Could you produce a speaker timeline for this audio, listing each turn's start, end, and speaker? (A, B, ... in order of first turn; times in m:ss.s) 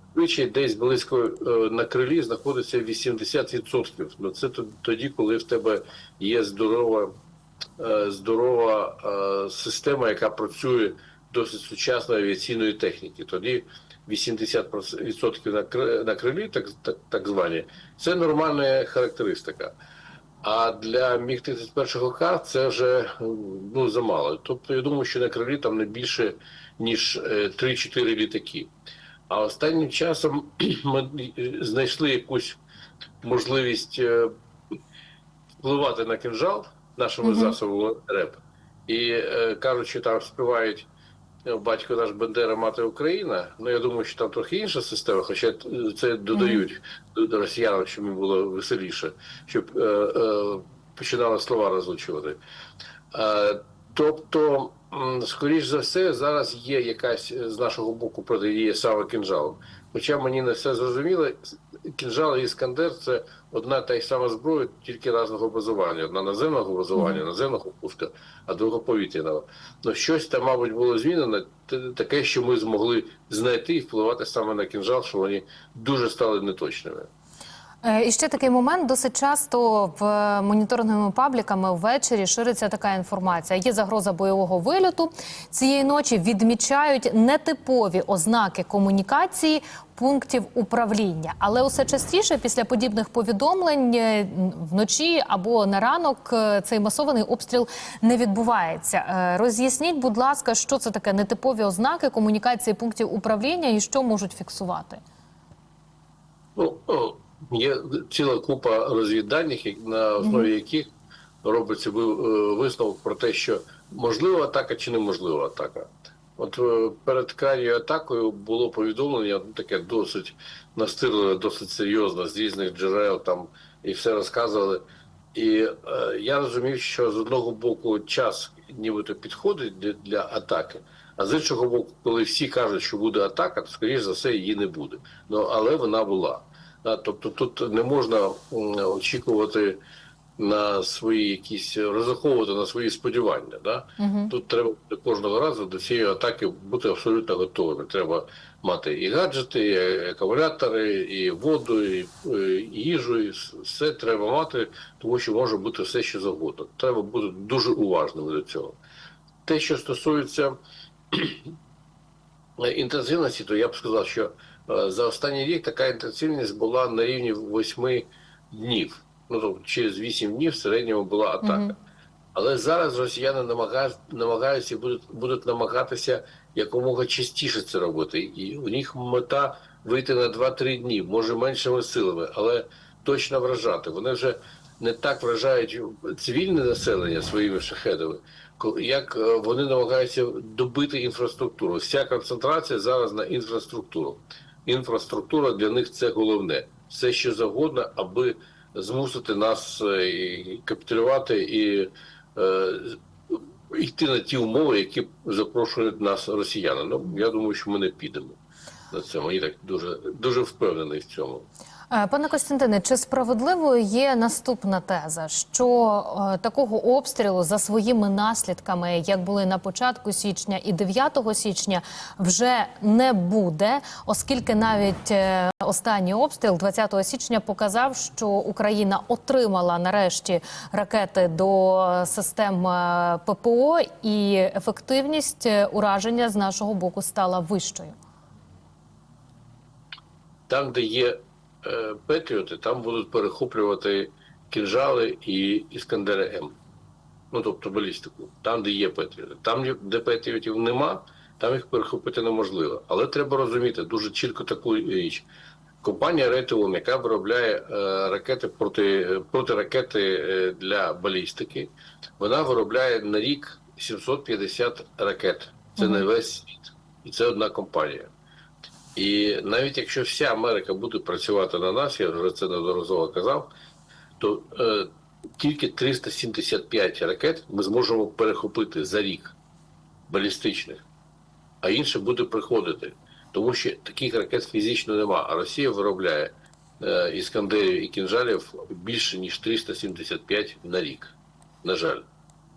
0:00.1-0:07.1 A
0:07.8-0:19.7 A
0:20.4-0:28.7 A
0:29.3-0:32.6 A
0:33.2-0:34.3 A
0:35.6-0:40.9 A
0:37.2-0:37.5 B
0:41.4-0:52.4 A
0:46.3-0:46.6 B
0:53.1-1:17.1 A
1:07.0-1:07.2 B
1:17.8-1:45.0 B
1:46.6-1:50.9 A
1:50.2-1:50.5 B
1:51.4-2:04.8 A
2:05.3-2:19.8 A
2:20.4-2:38.8 A
2:24.0-2:24.3 B
2:39.4-2:40.6 A
2:41.1-2:41.5 A
2:42.6-2:51.8 A
2:51.4-2:51.7 B
2:52.3-3:28.4 A
3:28.9-3:31.5 A
3:31.9-3:58.0 B
4:00.5-4:06.6 A
4:07.3-4:15.2 A
4:15.8-4:28.1 A
4:25.8-4:26.0 B
4:29.0-4:33.5 A
4:34.2-4:39.4 A
4:40.1-4:40.8 A
4:41.6-4:52.0 A